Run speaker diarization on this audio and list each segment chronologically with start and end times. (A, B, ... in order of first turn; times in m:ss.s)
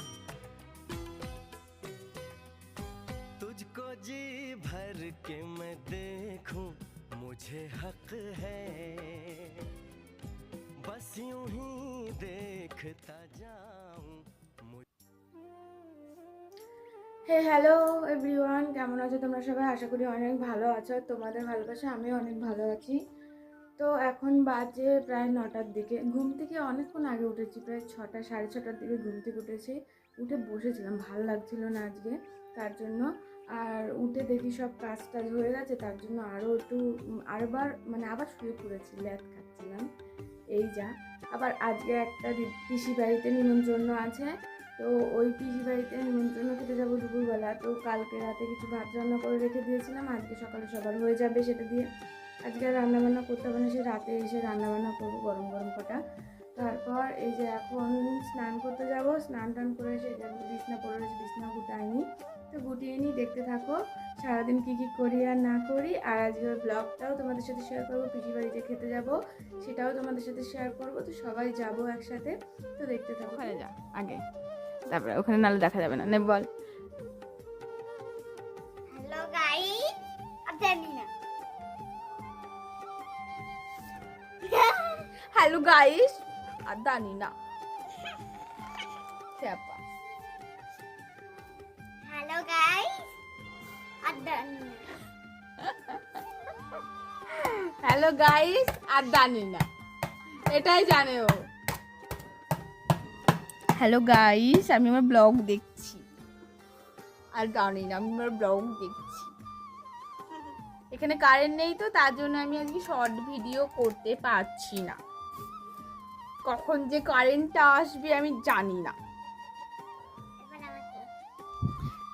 0:03.4-0:09.6 A
0:10.8-0:14.8 A
0:17.3-0:23.0 B
0:23.8-0:33.1 B
0:33.6-0:36.8 B
0:37.3-0:39.8 B
0:40.5-0:51.9 B
0:52.5-0:56.0 B
0:56.6-1:13.6 B
1:13.3-1:14.2 C
1:14.9-1:16.5 C
1:18.9-1:21.1 D
1:24.4-1:25.0 D
1:25.3-1:27.3 C
1:29.4-1:29.8 C
1:32.0-1:33.1 D
1:34.0-1:34.9 D
1:35.7-1:36.0 C
1:37.4-1:39.6 C
1:40.5-1:41.4 C
1:43.8-1:46.0 C
1:47.4-1:49.3 C
1:50.9-1:55.0 C
1:56.4-1:59.0 C
2:00.4-2:01.1 D